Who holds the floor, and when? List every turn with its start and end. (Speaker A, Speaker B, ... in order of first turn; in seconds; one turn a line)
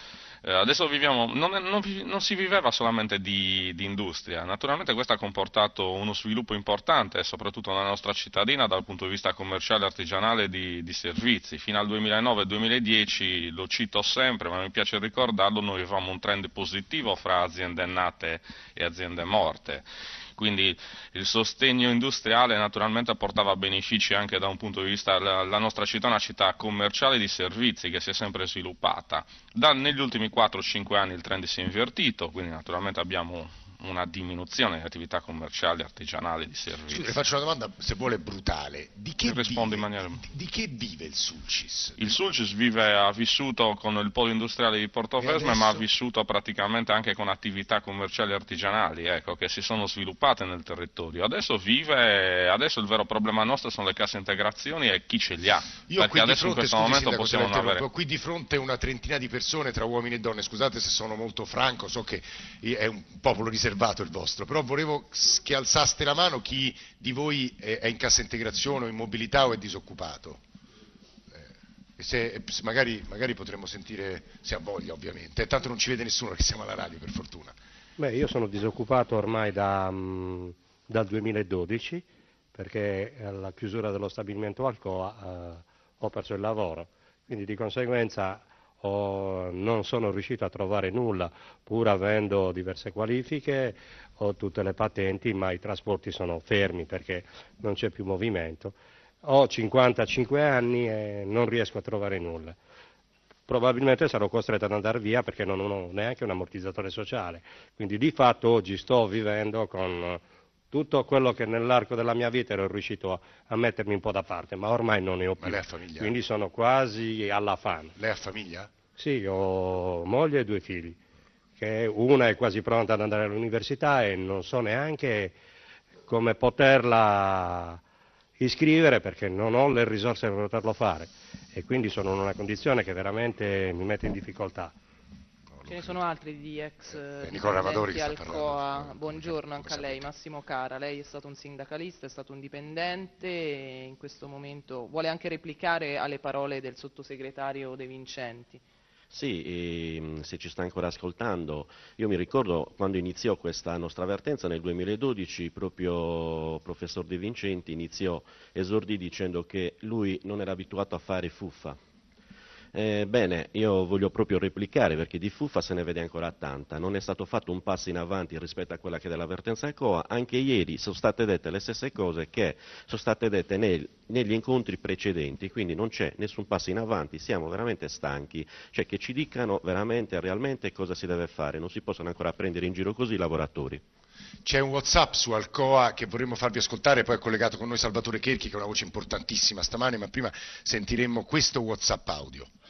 Speaker A: 0.4-37.1
Speaker B: 36.9-42.1
Speaker A: 39.2-40.2
Speaker A: 42.0-57.8
Speaker B: 45.2-45.8
Speaker B: 55.9-70.4
Speaker B: 71.3-77.6
Speaker C: 78.0-102.6
Speaker C: 103.5-118.0
Speaker B: 115.4-116.1
Speaker B: 118.0-118.7
Speaker C: 119.0-121.0
Speaker C: 121.6-125.4
Speaker C: 126.1-127.8
Speaker C: 128.4-134.8
Speaker B: 135.5-136.0
Speaker D: 135.7-148.6
Speaker B: 137.2-140.1
Speaker E: 149.1-161.8
Speaker E: 162.7-183.8
Speaker B: 184.4-192.5